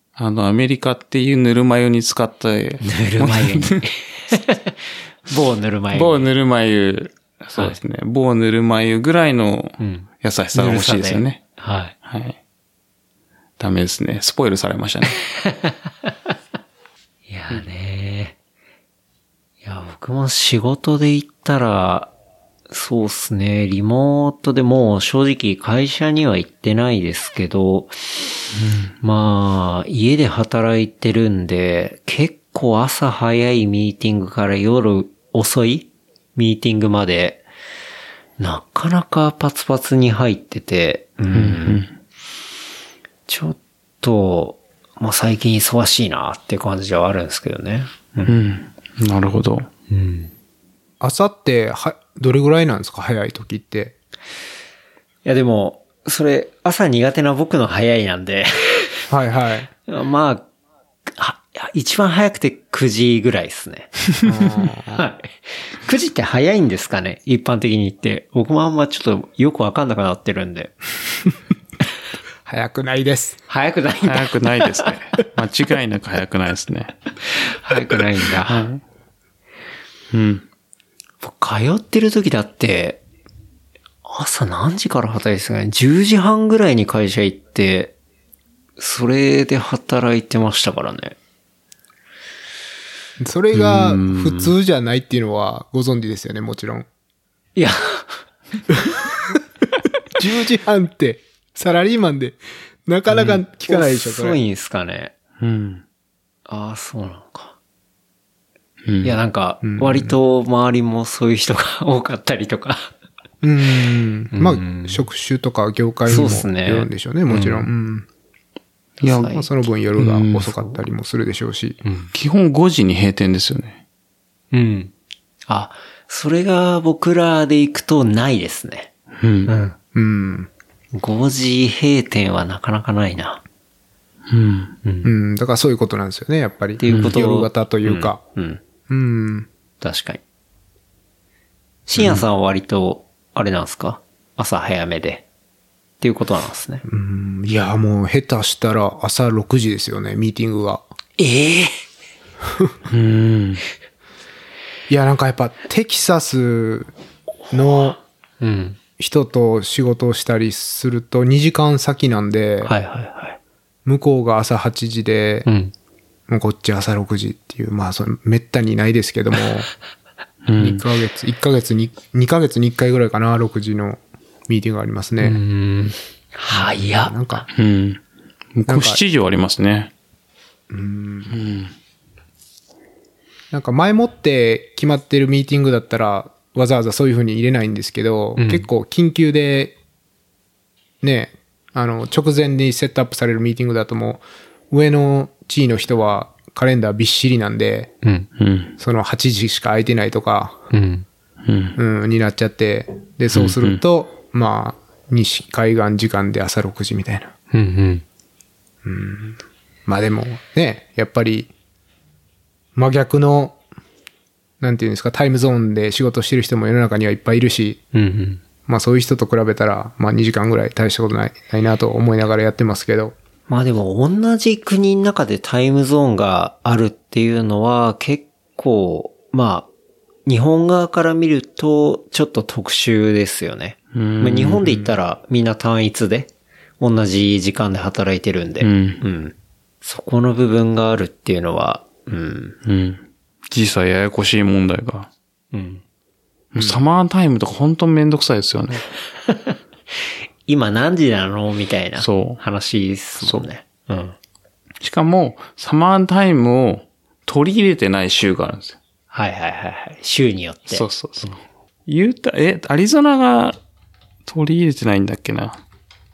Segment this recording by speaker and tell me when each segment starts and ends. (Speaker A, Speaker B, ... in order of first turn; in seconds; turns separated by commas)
Speaker A: 0.2-3.8, Speaker B: 2.8-6.3, Speaker A: 5.9-11.4, Speaker B: 9.8-11.9, Speaker A: 12.0-12.4, Speaker A: 13.6-15.2, Speaker B: 15.3-16.1, Speaker B: 17.3-18.3, Speaker B: 19.6-22.1, Speaker B: 22.7-28.3, Speaker A: 28.6-28.9, Speaker B: 29.0-37.4, Speaker B: 38.4-41.8, Speaker A: 41.3-41.9, Speaker B: 43.3-48.3, Speaker A: 48.2-49.7, Speaker B: 49.9-50.3, Speaker C: 51.0-53.9, Speaker B: 55.2-59.1, Speaker C: 59.1-59.7, Speaker B: 59.9-60.5, Speaker B: 61.1-64.0, Speaker C: 64.2-65.0, Speaker B: 64.9-70.8, Speaker C: 72.5-73.4, Speaker B: 73.5-74.9, Speaker A: 74.0-77.0, Speaker B: 77.4-78.7, Speaker A: 78.4-78.8, Speaker A: 80.1-80.4, Speaker B: 81.2-83.0, Speaker B: 84.0-87.9, Speaker B: 88.8-91.2, Speaker C: 93.2-96.9, Speaker A: 93.5-94.5, Speaker B: 97.5-98.2, Speaker C: 100.1-104.4, Speaker B: 103.1-105.1, Speaker A: 105.4-105.8, Speaker B: 106.5-107.5, Speaker A: 108.8-109.2, Speaker B: 109.0-112.9, Speaker C: 109.6-110.1, Speaker C: 113.4-118.0, Speaker B: 114.3-115.0, Speaker B: 116.1-117.7, Speaker A: 119.0-119.3, Speaker B: 119.0-119.4, Speaker C: 119.2-121.8, Speaker A: 120.0-120.5, Speaker B: 121.8-122.1, Speaker A: 122.1-123.8, Speaker B: 124.5-124.9, Speaker B: 125.5-128.9, Speaker A: 129.2-129.5, Speaker B: 129.5-129.8, Speaker C: 129.9-130.5, Speaker B: 130.9-133.4, Speaker A: 134.3-134.8, Speaker B: 134.8-135.1, Speaker C: 135.0-138.2, Speaker B: 136.8-138.6, Speaker A: 136.9-137.1, Speaker C: 138.9-139.5, Speaker B: 139.8-140.2, Speaker B: 141.9-145.2, Speaker B: 146.0-146.8, Speaker C: 146.8-150.8, Speaker B: 151.2-151.8, Speaker A: 152.9-153.6, Speaker C: 154.9-156.9, Speaker C: 157.5-158.0, Speaker B: 158.4-158.8, Speaker C: 159.0-162.7, Speaker B: 162.6-163.4, Speaker C: 163.8-165.5, Speaker B: 165.4-165.7, Speaker C: 166.3-169.7, Speaker A: 170.4-170.8, Speaker C: 170.6-175.4, Speaker B: 175.2-177.2, Speaker C: 176.5-177.5, Speaker A: 177.5-178.0, Speaker A: 178.6-179.9, Speaker C: 178.7-179.0, Speaker C: 180.7-181.4, Speaker A: 181.3-181.7, Speaker C: 183.5-189.7, Speaker B: 188.4-188.7, Speaker C: 191.0-197.9, Speaker B: 198.0-198.3, Speaker A: 198.4-198.7, Speaker C: 198.8-200.6, Speaker B: 200.7-201.1, Speaker A: 201.4-201.8, Speaker C: 201.8-207.3, Speaker A: 203.3-203.8, Speaker B: 207.5-208.0, Speaker C: 208.8-211.5, Speaker C: 212.7-213.6, Speaker C: 214.6-217.8, Speaker B: 217.9-218.4, Speaker C: 218.7-223.1, Speaker B: 223.5-229.7, Speaker B: 230.2-242.6, Speaker A: 233.9-234.9, Speaker A: 238.6-239.0, Speaker A: 242.6-245.1, Speaker B: 245.5-245.8, Speaker A: 246.5-248.9, Speaker B: 249.2-249.6, Speaker B: 250.5-254.1, Speaker A: 252.0-252.4, Speaker A: 253.2-253.5, Speaker A: 254.8-258.8, Speaker B: 259.1-261.3, Speaker A: 260.7-263.6, Speaker A: 264.2-265.6